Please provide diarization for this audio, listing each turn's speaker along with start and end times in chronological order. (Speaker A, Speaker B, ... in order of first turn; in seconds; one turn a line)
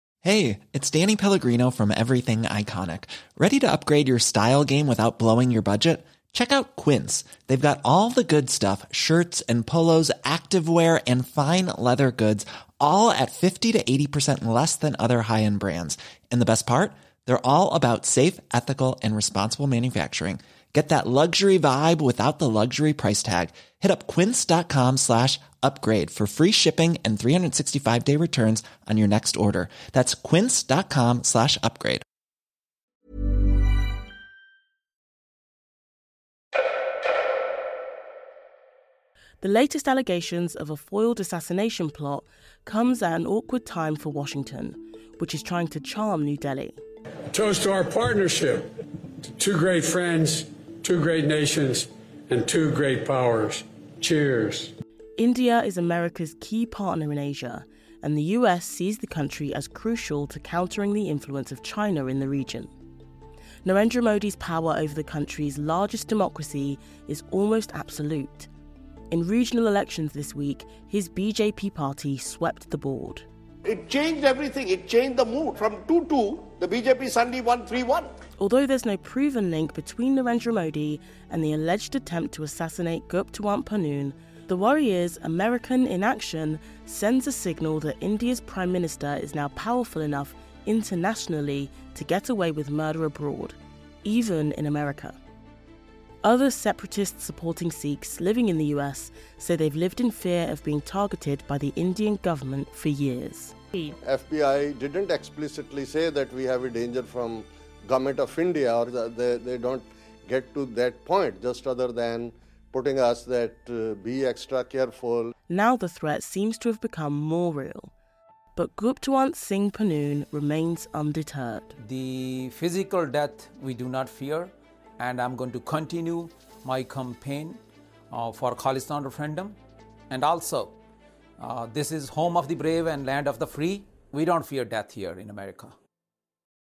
Speaker A: 0.2-32.0
Speaker B: 39.4-46.8
Speaker C: 47.3-48.6
Speaker C: 49.4-54.7
Speaker B: 55.2-62.7
Speaker B: 63.6-68.5
Speaker B: 69.1-73.2
Speaker D: 73.6-78.1
Speaker B: 78.4-95.2
Speaker B: 96.2-103.6
Speaker E: 104.0-115.3
Speaker B: 115.5-117.9
Speaker B: 118.5-121.8
Speaker F: 121.8-127.6
Speaker F: 128.1-129.6
Speaker F: 130.1-130.8
Speaker F: 131.4-135.7